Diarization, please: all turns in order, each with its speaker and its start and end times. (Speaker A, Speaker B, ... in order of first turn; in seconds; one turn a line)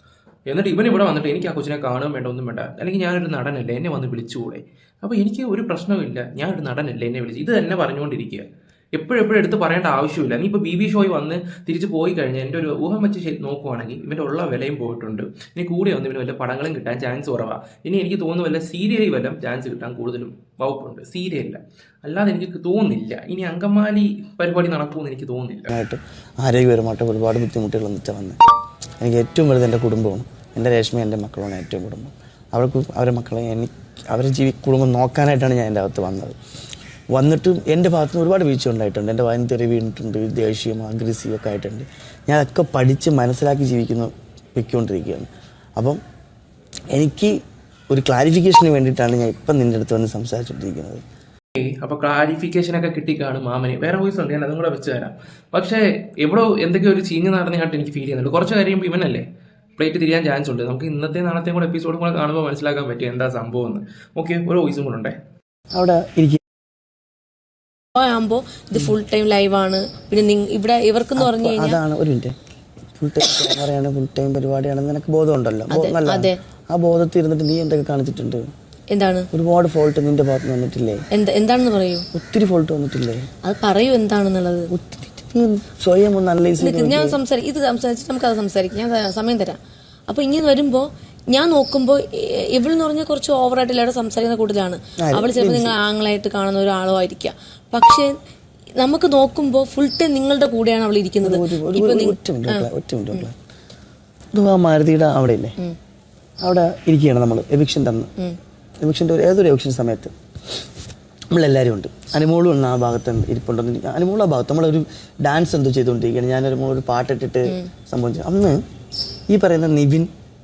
Speaker A: 0.5-25.7
Speaker B: 25.7-28.4
Speaker B: 29.0-36.4
Speaker B: 37.1-46.0
Speaker B: 46.9-47.4
Speaker B: 47.9-51.0
Speaker A: 51.6-59.2
Speaker A: 59.8-65.2
Speaker B: 65.7-66.4
Speaker C: 68.0-71.8
Speaker B: 71.2-72.3
Speaker B: 73.0-78.5
Speaker C: 75.7-76.4
Speaker C: 78.9-79.3
Speaker B: 79.3-81.0
Speaker C: 81.1-82.1
Speaker B: 82.1-83.3
Speaker C: 83.4-84.7
Speaker B: 84.7-87.2
Speaker C: 86.6-98.1
Speaker B: 95.0-95.6
Speaker C: 98.8-103.3
Speaker B: 101.2-103.3
Speaker B: 104.3-105.6
Speaker B: 106.4-108.1
Speaker B: 108.8-110.1
Speaker B: 111.3-118.6
Speaker B: 119.3-120.1